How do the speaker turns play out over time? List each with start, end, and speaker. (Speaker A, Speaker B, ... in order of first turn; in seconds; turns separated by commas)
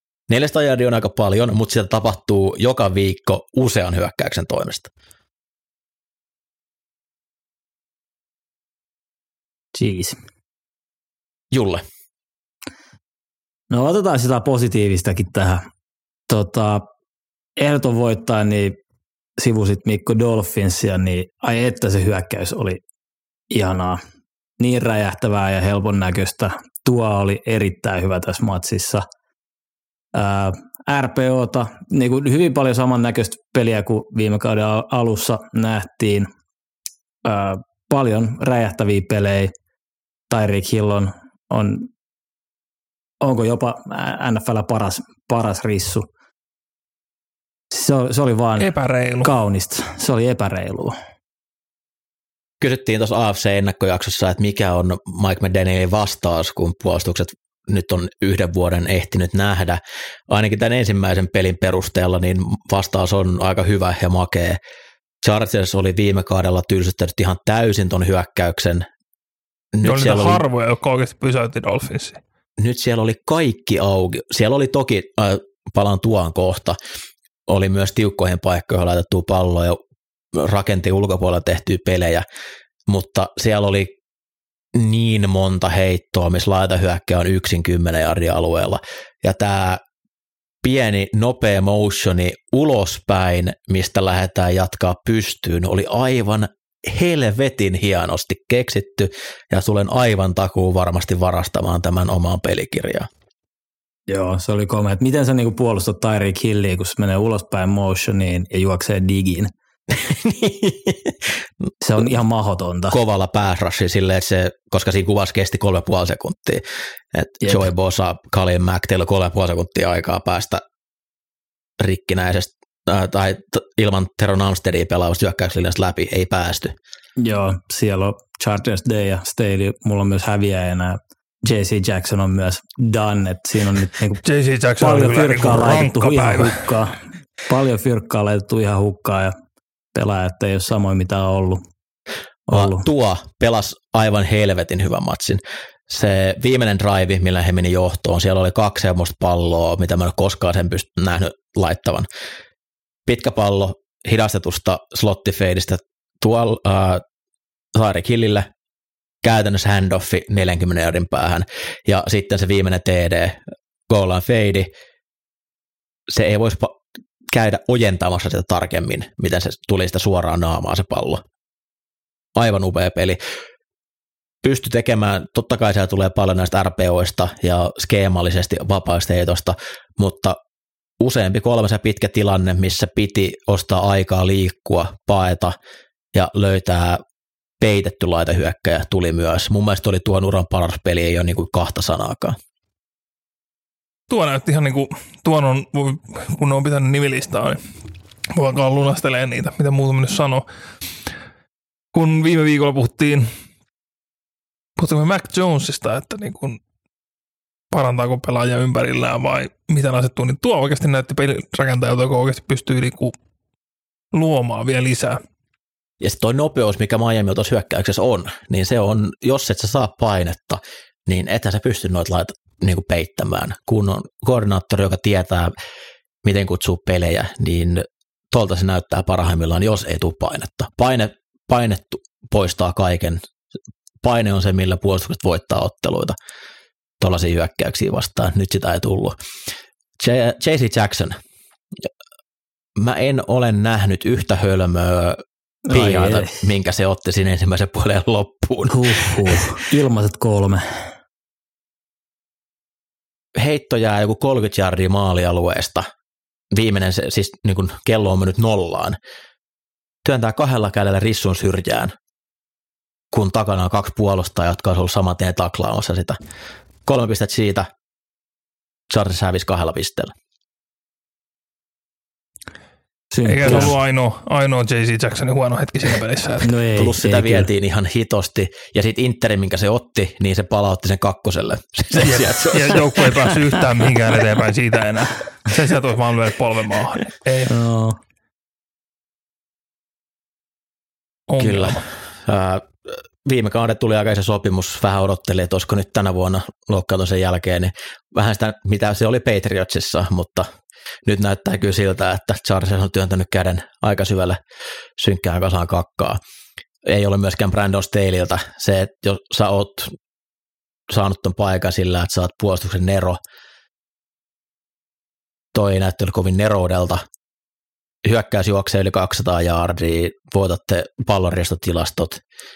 Speaker A: 0.3-4.9, Speaker B: 9.7-10.2, Speaker A: 11.5-11.8, Speaker B: 13.7-15.7, Speaker B: 16.3-16.9, Speaker B: 17.6-18.8, Speaker B: 19.4-22.8, Speaker B: 23.5-24.0, Speaker B: 24.6-29.1, Speaker B: 30.1-36.3, Speaker B: 37.2-39.5, Speaker B: 40.3-41.9, Speaker B: 43.2-46.1, Speaker B: 47.7-48.7, Speaker C: 48.6-49.3, Speaker B: 49.2-51.0, Speaker A: 52.6-64.6, Speaker A: 65.2-68.9, Speaker A: 69.7-70.4, Speaker C: 69.8-72.2, Speaker A: 72.6-76.8, Speaker A: 77.5-79.8, Speaker A: 80.3-82.2, Speaker A: 82.9-84.0, Speaker A: 84.7-89.8, Speaker A: 90.6-103.1, Speaker B: 104.1-109.5, Speaker A: 109.9-111.3, Speaker B: 111.8-113.0, Speaker A: 112.9-120.6, Speaker A: 121.8-126.8, Speaker B: 127.2-134.2, Speaker C: 134.2-136.6, Speaker B: 134.8-139.3, Speaker B: 139.9-141.6, Speaker B: 142.5-142.8, Speaker A: 142.5-152.1, Speaker A: 153.1-157.0, Speaker A: 157.8-158.5, Speaker A: 159.2-164.7, Speaker A: 166.1-171.2, Speaker A: 172.4-173.2, Speaker A: 174.4-180.4, Speaker A: 181.0-185.6, Speaker A: 186.1-187.0, Speaker A: 187.6-192.4, Speaker C: 194.1-197.6, Speaker C: 198.3-200.4, Speaker C: 201.9-203.3, Speaker C: 204.8-206.6, Speaker C: 207.7-213.1, Speaker C: 214.1-215.2, Speaker A: 216.0-225.5, Speaker A: 226.2-233.2, Speaker A: 234.0-236.2, Speaker A: 237.0-239.2, Speaker A: 240.0-241.2, Speaker A: 242.8-249.5, Speaker B: 245.7-246.4, Speaker B: 248.7-250.9, Speaker A: 253.4-255.9, Speaker A: 256.5-259.0, Speaker A: 260.0-261.9, Speaker A: 263.1-266.2, Speaker A: 266.9-267.7, Speaker A: 268.9-270.1, Speaker B: 273.1-273.7, Speaker C: 273.3-276.5, Speaker B: 276.4-277.5, Speaker A: 276.8-283.5, Speaker C: 282.0-287.5, Speaker B: 287.5-288.0, Speaker C: 291.3-291.9, Speaker A: 291.4-300.5, Speaker A: 301.1-304.4, Speaker A: 305.0-306.2, Speaker A: 306.9-309.9, Speaker A: 310.9-313.2, Speaker A: 315.5-317.1, Speaker A: 318.1-322.2